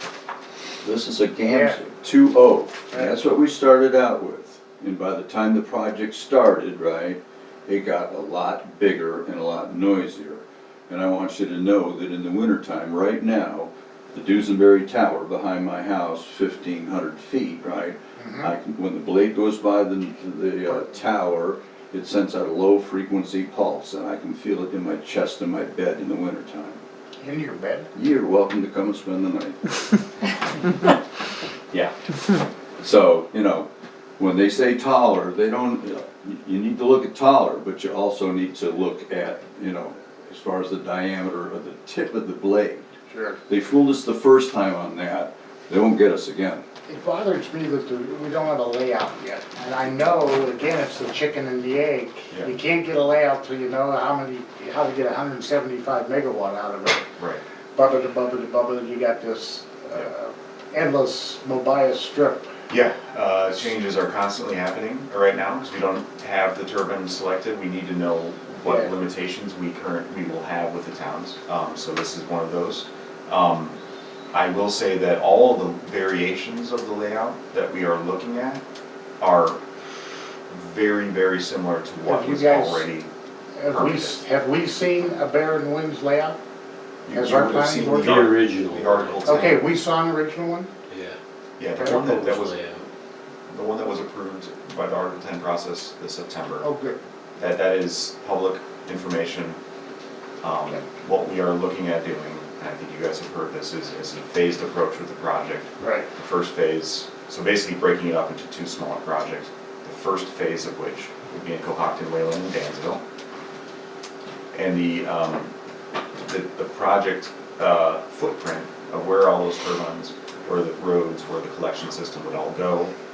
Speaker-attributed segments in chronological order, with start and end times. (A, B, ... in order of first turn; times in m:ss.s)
0:00.8-0:26.8 A
0:01.4-0:01.8 B
0:02.9-0:03.2 B
0:18.2-0:18.5 B
0:20.7-0:20.9 B
0:27.2-0:27.9 B
0:27.9-0:30.0 A
0:32.8-0:33.7 A
0:34.2-0:42.9 A
0:43.1-0:43.4 B
0:43.5-0:46.6 A
0:46.9-0:57.0 B
0:57.7-1:02.5 B
1:02.7-1:13.8 C
1:08.6-1:08.9 B
1:14.3-1:18.6 C
1:19.2-1:19.6 C
1:20.5-1:23.1 C
1:22.0-1:22.8 B
1:23.6-1:26.4 B
1:23.7-1:24.2 C
1:27.0-1:29.6 C
1:27.1-1:28.2 B
1:27.8-1:29.3 D
1:29.2-1:30.7 B
1:30.9-1:31.2 D
1:31.6-1:32.6 C
1:31.8-1:32.9 D
1:31.8-1:32.2 B
1:33.5-1:36.7 C
1:36.6-1:37.0 B
1:37.4-1:39.6 C
1:40.4-1:53.0 C
1:45.8-1:46.1 B
1:54.5-1:55.5 C
1:56.2-2:02.9 C